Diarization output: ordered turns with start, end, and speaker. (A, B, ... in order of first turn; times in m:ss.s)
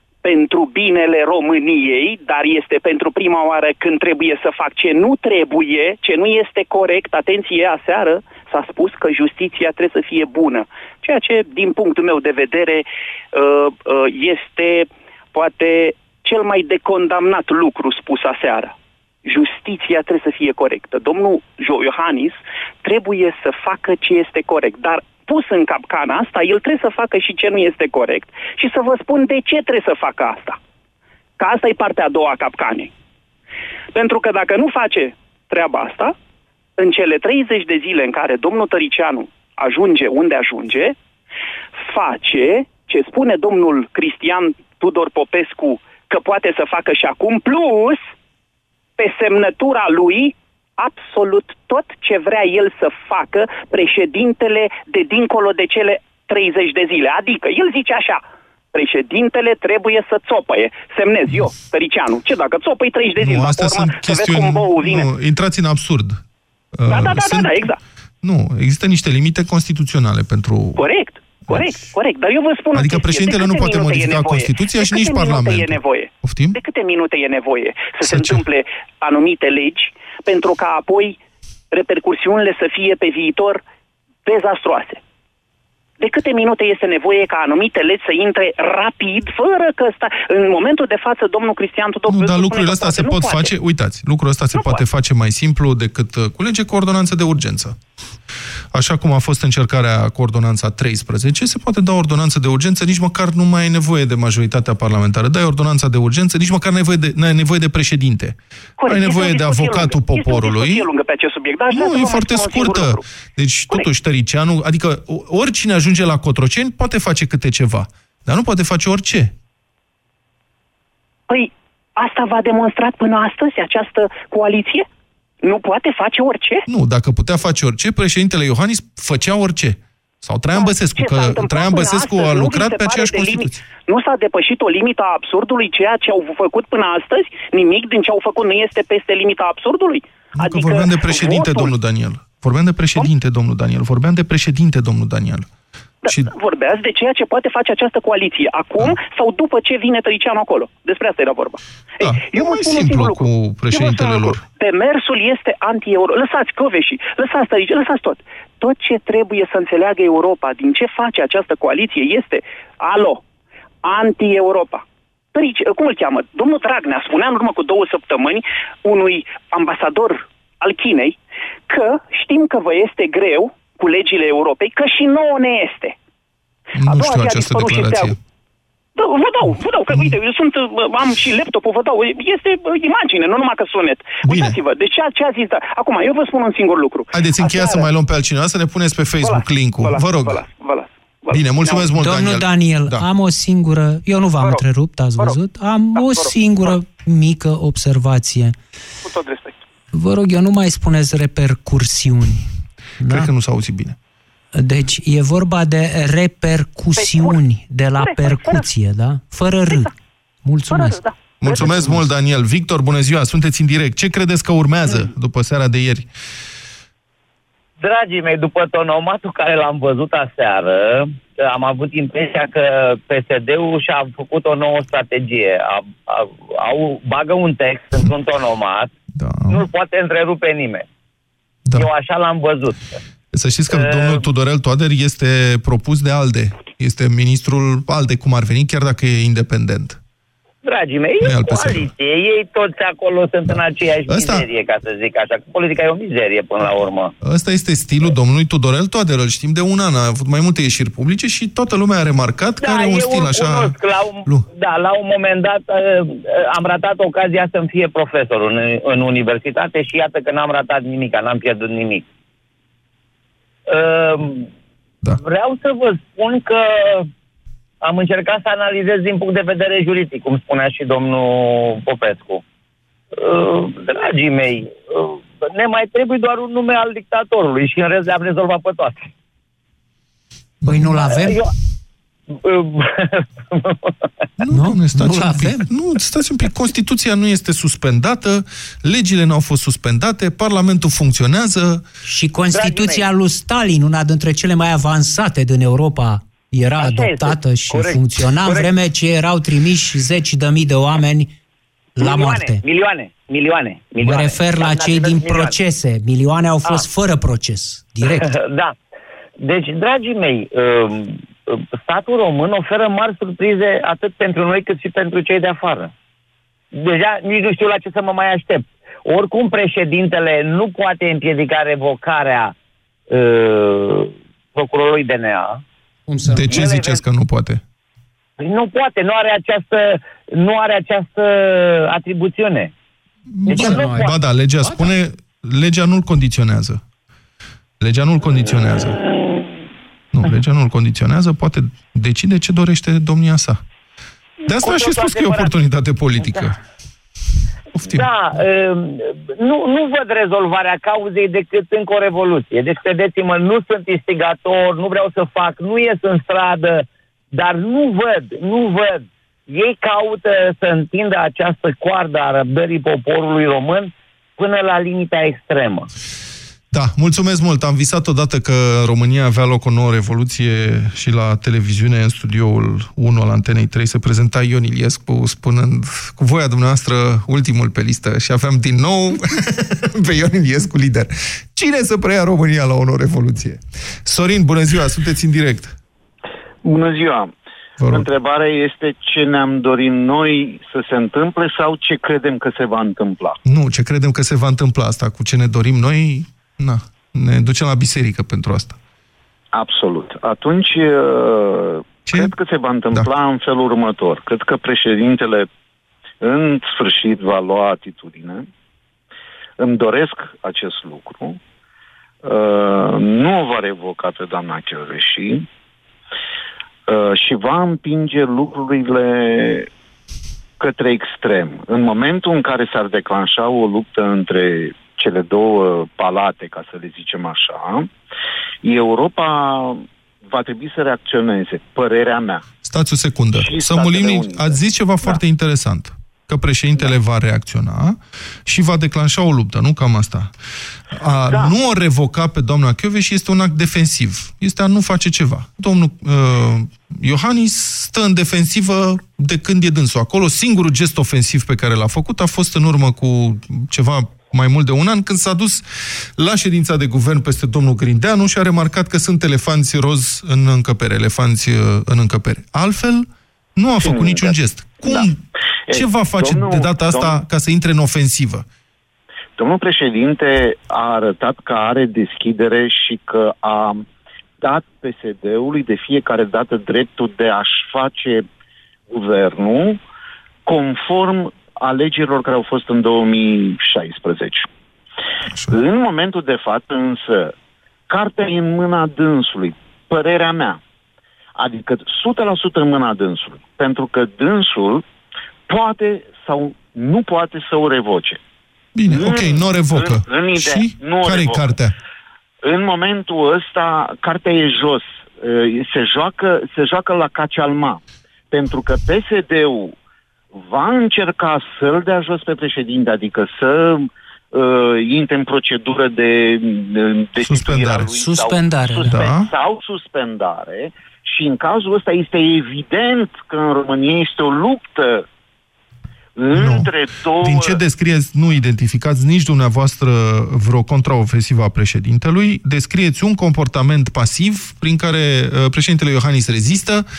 0:00.2-0:30.6 A
0:31.4-0:32.9 A
0:33.9-0:36.1 A
0:36.8-0:41.0 A
0:41.8-0:48.0 A
0:49.0-0:58.2 A
0:58.7-1:05.1 A
1:03.2-1:06.2 B
1:06.8-1:07.7 B
1:06.9-1:07.8 A
1:08.2-1:10.8 B
1:10.8-1:21.2 A
1:12.7-1:16.6 B
1:18.0-1:18.4 B
1:21.7-1:23.6 A
1:24.2-1:25.0 A
1:26.0-1:33.5 A
1:32.1-1:37.8 B
1:34.5-1:34.8 A
1:38.7-1:50.9 B
1:48.8-1:53.0 A
1:51.7-1:59.3 B
2:01.3-2:04.9 A
2:05.4-2:06.6 A
2:06.7-2:13.6 B
2:10.5-2:21.7 A
2:20.4-2:25.5 B
2:26.0-2:26.3 B
2:26.0-2:43.2 A
2:32.0-2:34.4 B
2:43.8-2:51.2 A
2:51.7-2:56.0 A
2:56.8-2:58.2 B
2:56.9-2:58.2 A
2:59.0-3:07.9 A
3:04.2-3:04.6 B
3:07.1-3:10.4 B
3:09.2-3:11.9 A
3:11.3-3:13.0 B
3:12.0-3:18.6 C
3:16.0-3:16.3 A
3:19.0-3:19.6 A
3:19.9-3:22.5 C
3:23.0-3:23.3 C
3:23.0-3:24.0 B
3:24.5-3:29.9 C
3:27.0-3:27.4 A
3:28.0-3:28.6 A
3:30.4-3:31.0 C
3:30.7-3:31.8 A
3:31.4-3:36.1 B
3:31.6-3:32.0 C
3:37.8-3:48.9 D
3:49.2-3:49.6 B
3:49.5-3:50.9 D
3:51.7-3:52.9 D
3:53.3-4:00.0 B
3:53.7-3:54.2 D
4:00.6-4:07.1 D
4:01.2-4:01.9 B
4:03.5-4:04.5 B
4:07.2-4:14.5 B
4:12.6-4:22.0 D
4:23.7-4:24.5 D
4:25.2-4:27.1 D
4:27.8-4:32.4 D
4:33.2-4:39.1 D
4:40.6-4:40.9 B
4:40.7-4:41.4 C
4:41.0-4:41.5 D
4:42.3-4:44.0 D
4:44.4-4:51.8 B
4:44.5-4:45.7 C
4:52.0-5:01.3 C
4:52.5-4:53.1 D
4:56.8-4:58.8 D
5:02.0-5:02.6 C
5:02.0-5:05.6 D
5:04.0-5:08.3 C
5:08.0-5:08.8 D
5:09.4-5:15.9 D
5:16.7-5:22.5 D
5:23.1-5:25.6 D
5:26.1-5:26.7 C
5:26.3-5:27.6 B
5:26.5-5:27.0 D
5:28.4-5:32.7 D
5:33.3-5:36.8 B
5:33.5-5:34.2 D
5:33.5-5:34.9 C
5:37.8-5:39.0 B
5:40.1-5:43.6 B
5:44.4-5:45.5 D
5:44.5-5:46.6 B
5:46.2-5:46.5 D
5:47.8-5:48.1 B
5:47.8-6:05.9 D
6:06.7-6:25.8 B
6:26.6-6:27.3 E
6:27.9-6:33.4 E
6:33.4-6:38.8 B
6:39.5-6:45.5 E
6:46.2-6:48.5 E
6:49.6-6:51.4 E
6:52.2-6:55.5 E
6:56.9-6:59.7 E
7:00.6-7:07.9 E
7:08.6-7:12.4 E
7:12.6-7:20.3 B
7:13.3-7:15.2 E
7:20.9-7:35.6 B
7:21.3-7:21.6 E
7:36.2-7:48.4 B
7:43.8-7:45.1 E
7:45.7-7:47.2 E
7:49.4-7:53.8 E
7:54.4-7:58.3 E
7:58.9-7:59.8 E
8:00.5-8:04.5 E
8:05.5-8:07.3 E
8:07.9-8:10.6 E
8:11.4-8:14.8 E
8:15.5-8:18.2 E
8:18.8-8:21.7 B
8:18.9-8:21.6 E
8:22.4-8:27.8 E
8:28.3-8:29.8 E
8:30.4-8:45.1 E
8:37.2-8:37.9 B
8:37.9-8:39.0 C
8:38.9-8:39.3 B
8:46.2-8:47.6 E
8:46.4-8:56.9 B